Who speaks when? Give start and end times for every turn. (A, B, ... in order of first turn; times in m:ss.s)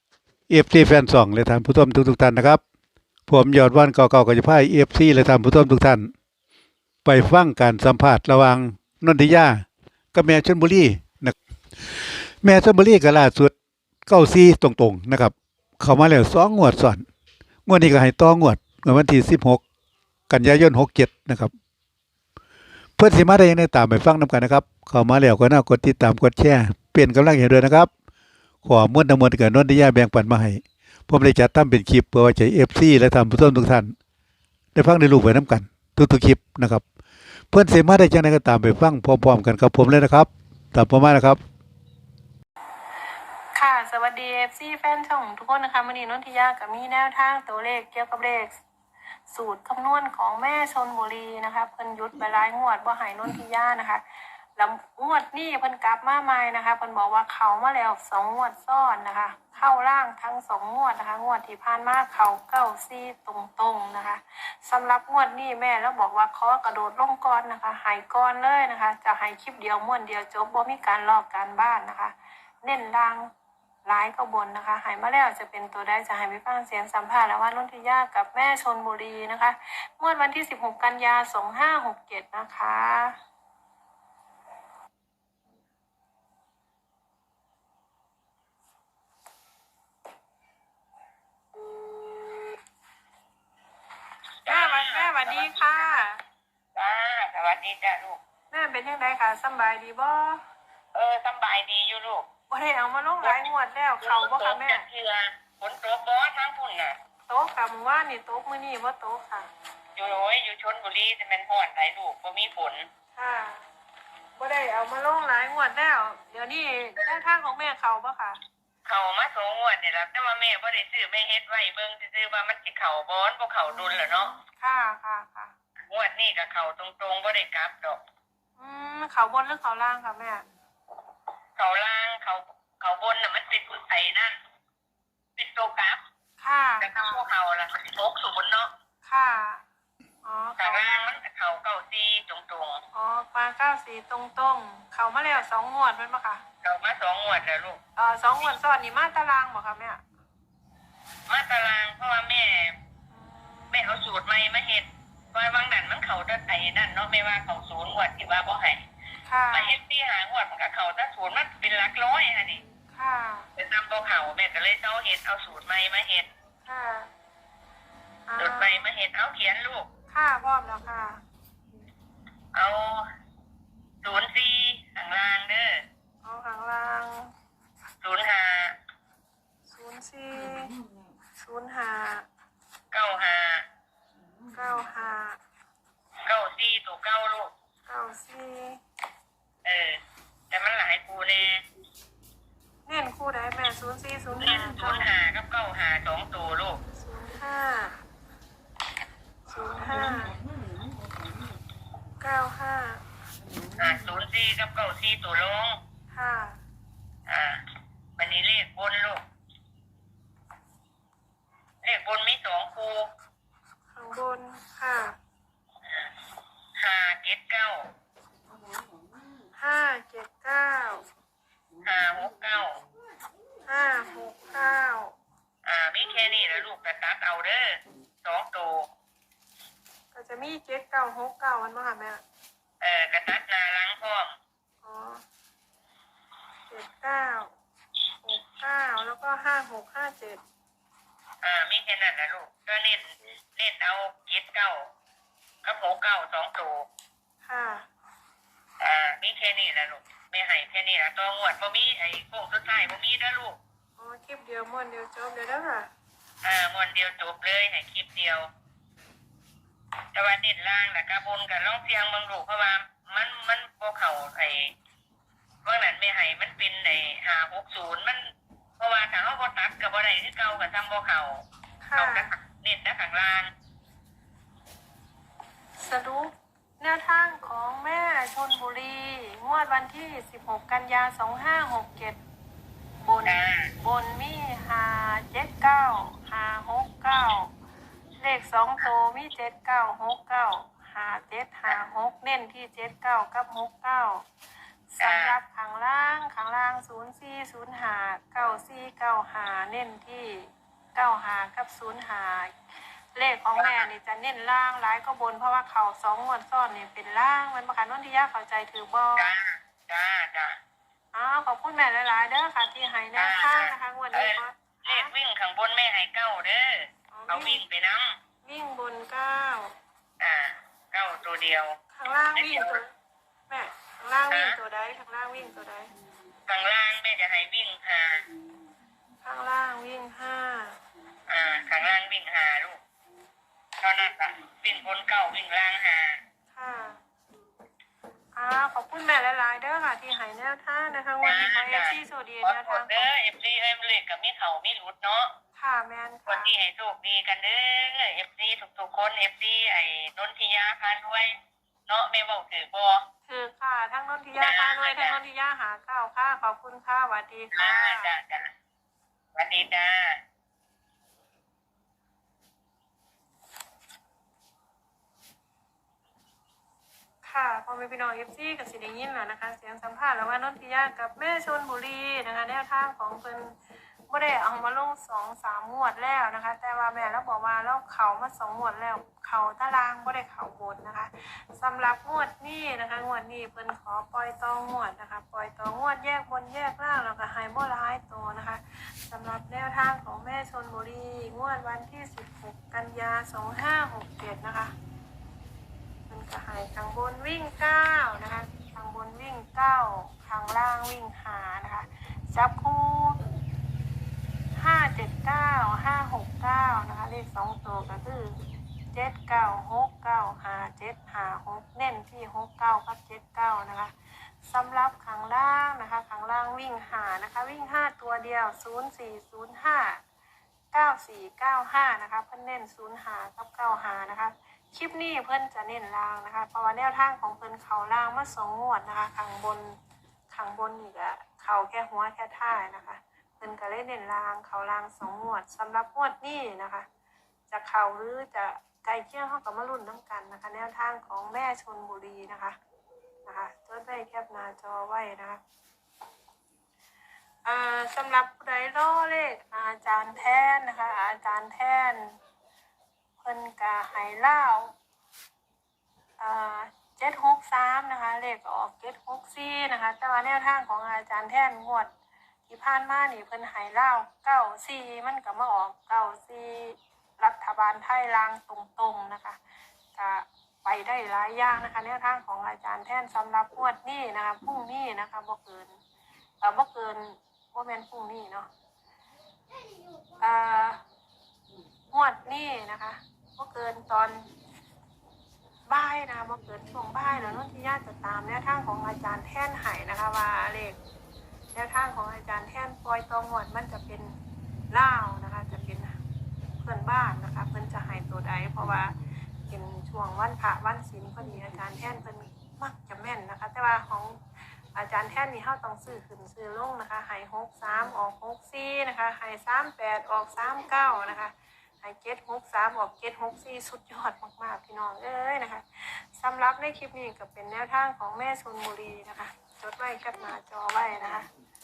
0:00.5-0:02.6 A
0:03.3-0:06.1 A
0:07.0-0:11.4 A
0:11.9-0:13.5 A
0:14.1-0:17.0 A
0:17.6-0:19.6 A
0:20.3-0:21.5 A
0:23.0-0:27.9 A
0:28.6-0:33.9 A
0:34.7-0:36.8 A
0:37.5-0:41.4 A
0:43.5-0:48.5 B
0:49.3-0:54.0 B
0:54.6-1:13.3 B
1:13.8-1:23.2 B
1:34.4-1:36.0 C
1:34.5-1:36.2 B
1:36.7-1:38.2 C
1:38.5-1:40.4 B
1:40.9-1:42.2 C
1:42.5-1:44.8 B
1:43.2-1:46.9 C
1:47.3-1:49.5 B
1:50.0-1:52.9 C
1:53.2-1:53.6 B
1:54.4-1:58.4 B
1:57.0-1:57.2 C
1:58.8-2:04.3 C
2:03.7-2:05.5 B
2:05.9-2:08.0 C
2:08.6-2:10.4 B
2:11.6-2:14.3 C
2:15.4-2:16.0 C
2:16.4-2:17.2 B
2:16.8-2:18.7 C
2:19.0-2:19.6 B
2:20.2-2:21.1 B
2:20.6-2:22.8 C
2:22.9-2:26.4 B
2:26.6-2:27.8 C
2:28.0-2:30.0 B
2:31.3-2:32.8 C
2:33.1-2:33.8 B
2:33.7-2:38.8 C
2:39.2-2:39.8 B
2:39.5-2:42.6 C
2:42.9-2:43.5 B
2:43.6-2:46.3 C
2:46.6-2:47.1 B
2:48.3-2:48.9 B
2:48.4-2:49.9 C
2:50.1-2:51.2 B
2:52.5-2:53.0 C
2:54.0-2:55.8 C
2:56.2-2:57.3 B
2:58.0-2:58.8 C
2:59.7-3:00.8 B
3:01.4-3:02.3 B
3:02.9-3:03.6 C
3:04.5-3:05.4 B
3:06.2-3:07.5 C
3:07.8-3:08.8 B
3:09.6-3:10.0 C
3:10.5-3:11.6 C
3:12.8-3:15.1 B
3:14.4-3:16.8 C
3:16.9-3:18.0 B
3:19.5-3:20.4 B
3:22.2-3:23.0 B
3:23.8-3:25.8 C
3:26.1-3:26.6 B
3:27.3-3:27.6 C
3:28.2-3:29.2 C
3:31.8-3:33.1 C
3:33.9-3:35.2 B
3:36.8-3:37.8 C
3:39.5-3:41.1 B
3:41.8-3:42.8 C
3:43.7-3:45.1 B
3:45.6-3:48.9 C
3:50.1-3:52.2 B
3:52.8-3:54.3 C
3:54.8-3:55.2 B
3:56.7-3:57.5 B
3:58.2-4:00.4 B
4:01.4-4:04.8 C
4:05.6-4:06.8 C
4:07.4-4:07.9 B
4:08.8-4:13.6 C
4:14.0-4:15.9 B
4:16.4-4:18.5 C
4:20.1-4:24.7 C
4:25.6-4:28.2 C
4:28.8-4:31.4 C
4:31.8-4:32.3 B
4:31.9-4:33.5 C
4:35.8-4:42.2 B
4:43.0-4:47.5 B
4:43.2-4:43.7 C
4:48.2-4:54.2 B
4:54.9-5:02.5 B
4:55.0-4:55.4 C
5:03.1-5:09.3 B
5:03.5-5:03.9 C
5:09.2-5:10.6 C
5:11.1-5:15.1 B
5:13.2-5:18.2 C
5:17.1-5:17.6 B
5:18.4-5:19.8 B
5:20.2-5:21.8 C
5:21.9-5:22.9 B
5:22.3-5:22.8 C
5:23.5-5:25.9 B
5:24.3-5:24.6 C
5:26.5-5:28.2 C
5:29.2-5:30.8 B
5:31.3-5:32.8 C
5:33.8-5:36.2 C
5:36.5-5:37.0 B
5:38.4-5:43.1 B
5:41.2-5:45.3 C
5:45.5-5:46.5 B
5:46.3-5:51.3 C
5:51.9-5:53.0 C
5:53.3-5:58.1 B
5:54.3-5:55.2 C
5:57.5-5:58.4 C
5:59.3-6:00.2 C
6:07.2-6:13.6 B
6:14.1-6:34.7 B
6:36.1-6:43.3 B
6:44.6-6:48.4 B
6:48.9-6:53.9 B
6:54.4-7:00.0 B
7:00.7-7:09.8 B
7:10.3-7:16.8 B
7:17.5-7:22.6 B
7:23.2-7:25.4 B
7:27.4-7:32.2 B
7:33.2-7:34.7 B
7:36.2-7:41.9 B
7:42.5-7:49.4 B
7:49.9-7:55.8 B
7:56.4-7:58.5 B
8:00.2-8:00.8 B
8:01.9-8:04.3 B
8:05.7-8:10.8 B
8:11.5-8:14.2 B
8:14.7-8:16.0 B
8:16.6-8:19.0 B
8:19.5-8:24.2 B
8:24.7-8:41.3 B